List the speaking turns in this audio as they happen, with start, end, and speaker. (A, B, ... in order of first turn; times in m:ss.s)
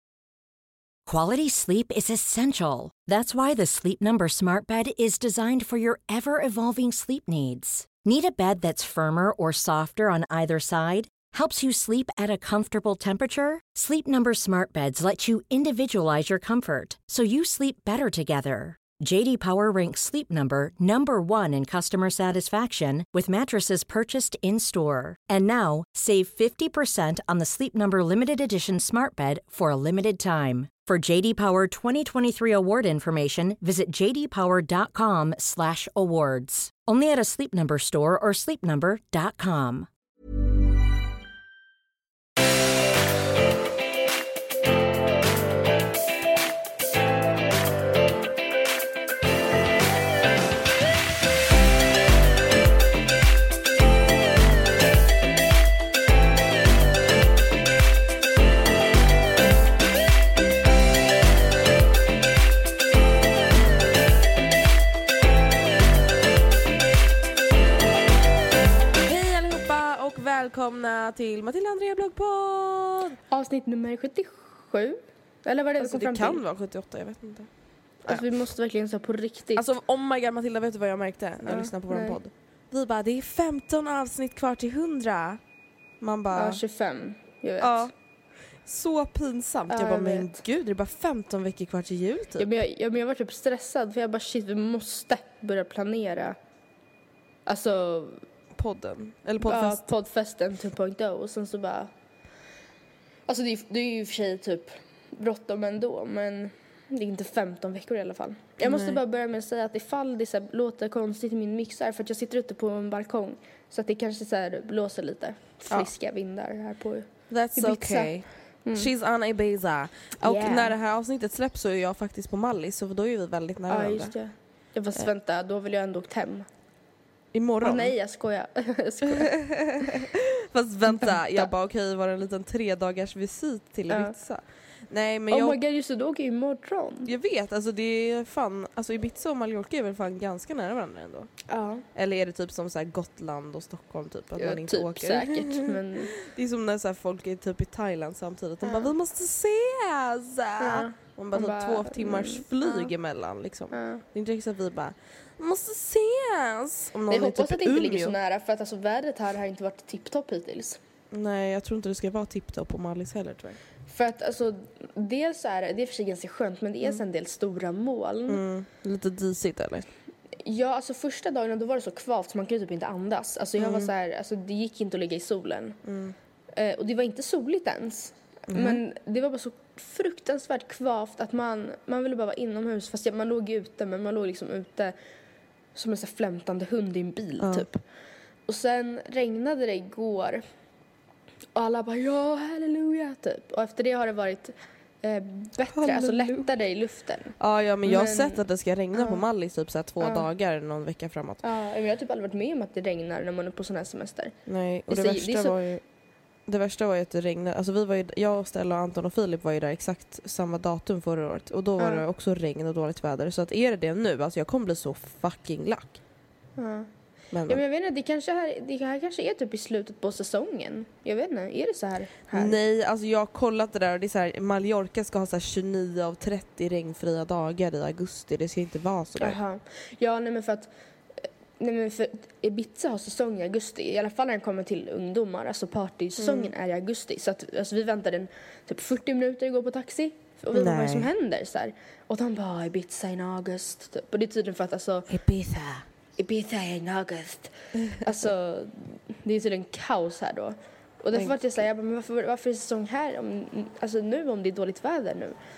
0:01.1-0:39.9 A
1:09.0-1:13.2 B
1:13.3-1:16.4 C
1:15.8-1:17.5 B
1:18.0-1:19.6 C
1:19.6-1:25.4 B
1:21.5-1:22.2 C
1:26.0-1:26.6 B
1:26.3-1:27.9 C
1:27.6-1:27.9 B
1:28.6-1:32.5 B
1:29.7-1:30.4 C
1:32.4-1:36.4 C
1:37.5-1:38.2 C
1:38.6-1:39.9 B
1:39.4-1:41.9 C
1:43.3-1:58.9 C
1:48.6-1:49.0 B
1:57.3-2:04.1 B
2:00.2-2:00.7 C
2:03.7-2:06.5 C
2:07.3-2:07.9 B
2:07.6-2:09.8 C
2:09.3-2:15.6 B
2:10.9-2:11.5 C
2:15.3-2:17.1 C
2:17.0-2:21.3 B
2:21.5-2:21.8 C
2:21.9-2:38.2 B
2:24.4-2:26.1 C
2:28.6-2:28.9 C
2:30.6-2:32.9 C
2:33.7-2:34.0 C
2:37.1-2:40.8 C
2:41.1-2:43.6 B
2:43.9-2:48.4 C
2:48.3-2:49.9 B
2:50.4-2:55.8 C
2:53.6-2:53.9 B
2:55.8-2:56.2 B
2:56.6-3:04.9 C
2:58.5-2:58.8 B
3:05.8-3:07.8 C
3:07.4-3:07.7 B
3:08.5-3:10.4 C
3:11.6-3:18.4 C
3:15.8-3:16.4 B
3:17.4-3:21.4 B
3:19.0-3:19.2 C
3:20.0-3:20.3 C
3:21.4-3:24.3 C
3:24.5-3:25.8 B
3:24.9-3:25.6 C
3:26.5-3:36.0 B
3:31.8-3:32.0 C
3:36.6-3:36.9 C
3:37.3-3:37.6 B
3:37.5-3:42.6 C
3:42.3-3:49.4 B
3:49.2-3:50.7 C
3:51.6-4:05.1 C
3:56.2-3:56.5 B
4:00.5-4:01.1 B
4:05.1-4:05.9 B
4:06.2-4:15.4 C
4:07.8-4:08.1 B